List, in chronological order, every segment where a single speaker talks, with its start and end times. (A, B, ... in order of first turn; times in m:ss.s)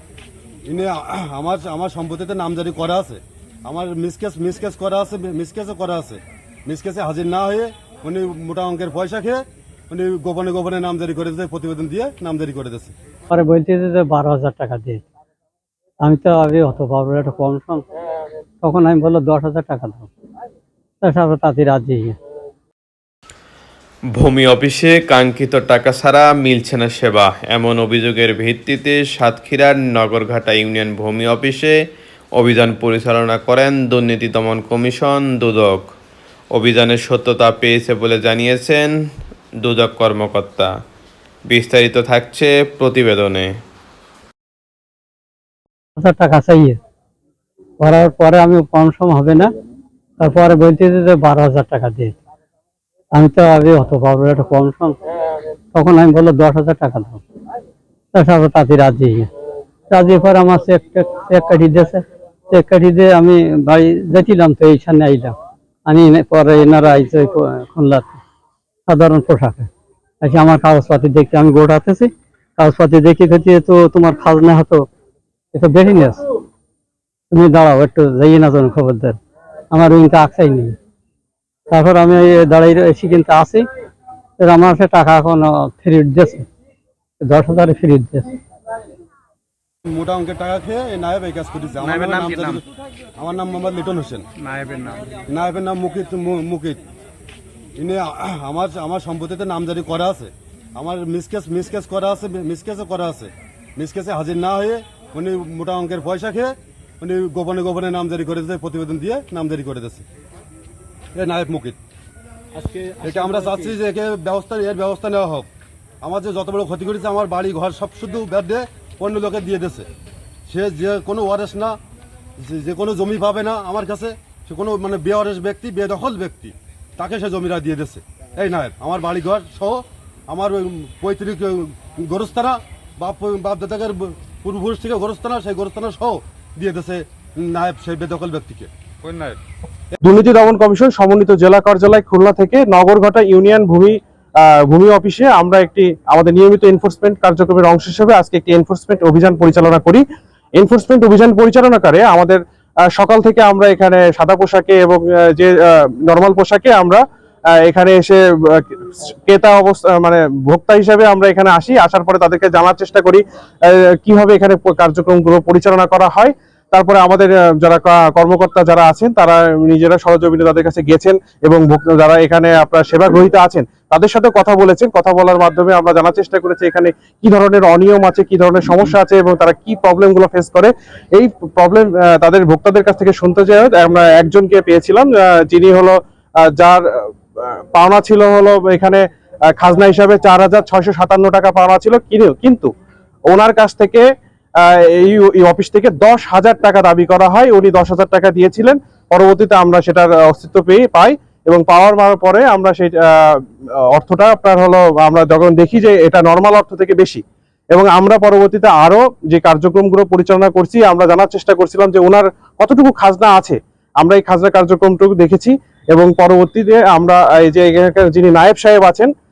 0:00.7-0:13.0 A
0:13.3-0:15.0 B
0:16.0-0:17.8 B
0:18.6-0:20.1 B
0:21.0-0:22.2 B
0:24.2-0:31.8 C
0:32.4-0:35.9 C
0:36.5-0:38.9 C
0:39.6-0:40.7 C
0:41.5-0:43.6 C
0:46.0-0:46.8 B
0:47.8-0:49.5 B
0:50.2-0:52.2 B
0:53.2-0:55.0 B
0:55.7-0:57.2 B
0:58.1-0:59.3 B
0:59.9-1:05.4 B
1:05.9-1:08.2 B
1:08.9-1:09.7 B
1:10.2-1:14.8 B
1:15.5-1:16.2 B
1:17.3-1:19.2 B
1:19.7-1:20.8 B
1:21.7-1:23.7 B
1:24.4-1:26.5 B
1:27.2-1:28.3 B
1:29.9-1:32.6 A
1:31.9-1:32.6 D
1:33.2-1:34.3 A
1:34.4-1:35.0 D
1:35.3-1:36.8 A
1:37.8-1:50.1 A
1:51.2-1:51.8 A
1:52.6-1:53.6 D
1:53.0-1:55.5 A
1:56.0-1:59.9 A
2:00.5-2:01.8 A
2:02.4-2:18.7 A
2:19.0-2:19.4 D
2:20.0-2:30.0 E
2:30.6-2:32.4 E
2:32.9-2:37.0 E
2:37.6-3:06.0 E
3:06.5-3:09.0 E
3:09.6-3:12.7 E
3:13.3-3:14.0 E
3:14.6-3:27.2 E
3:27.7-3:39.1 E